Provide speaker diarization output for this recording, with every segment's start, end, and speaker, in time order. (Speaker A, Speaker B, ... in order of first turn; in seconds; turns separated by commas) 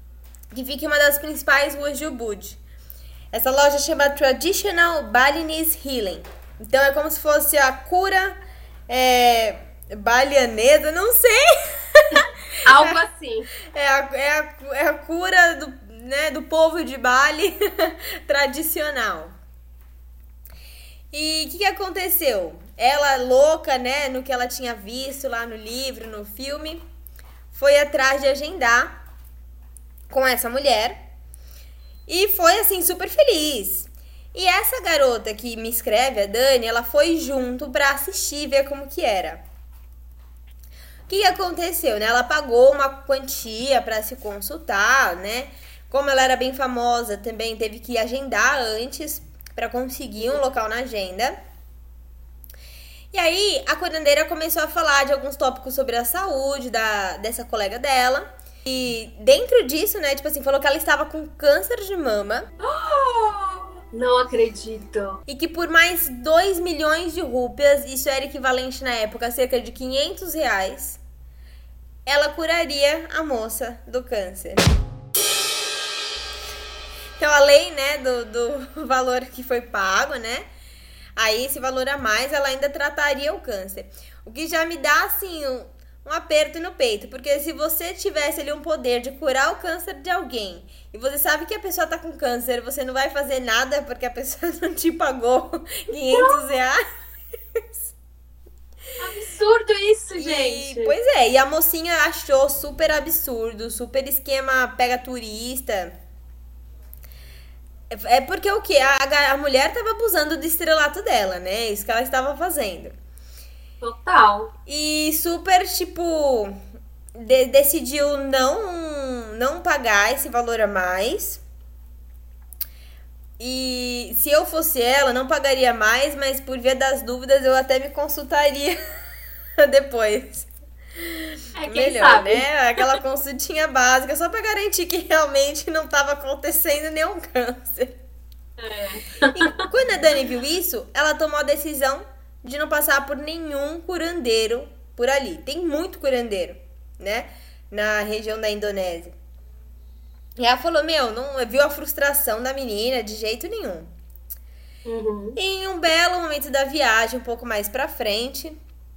Speaker A: 0.5-2.6, Speaker A: 3.3-8.4, Speaker A: 8.9-13.0, Speaker B: 12.1-13.5, Speaker A: 13.6-19.3, Speaker A: 21.1-26.8, Speaker A: 27.5-29.0, Speaker A: 30.1-30.9, Speaker A: 32.1-39.4, Speaker A: 41.1-51.3, Speaker A: 53.1-62.5, Speaker B: 62.6-65.2, Speaker A: 65.3-71.0, Speaker A: 72.0-74.7, Speaker A: 77.2-80.5, Speaker A: 81.2-96.8, Speaker B: 96.1-96.4, Speaker B: 99.0-101.0, Speaker A: 100.2-106.0, Speaker A: 107.9-112.9, Speaker B: 113.8-114.5, Speaker A: 114.7-116.6, Speaker A: 117.1-121.4, Speaker A: 123.4-128.8, Speaker A: 129.6-138.0, Speaker B: 131.6-132.9, Speaker B: 138.6-139.7, Speaker A: 139.3-149.1, Speaker A: 150.4-153.9, Speaker B: 154.8-155.4, Speaker A: 155.3-158.5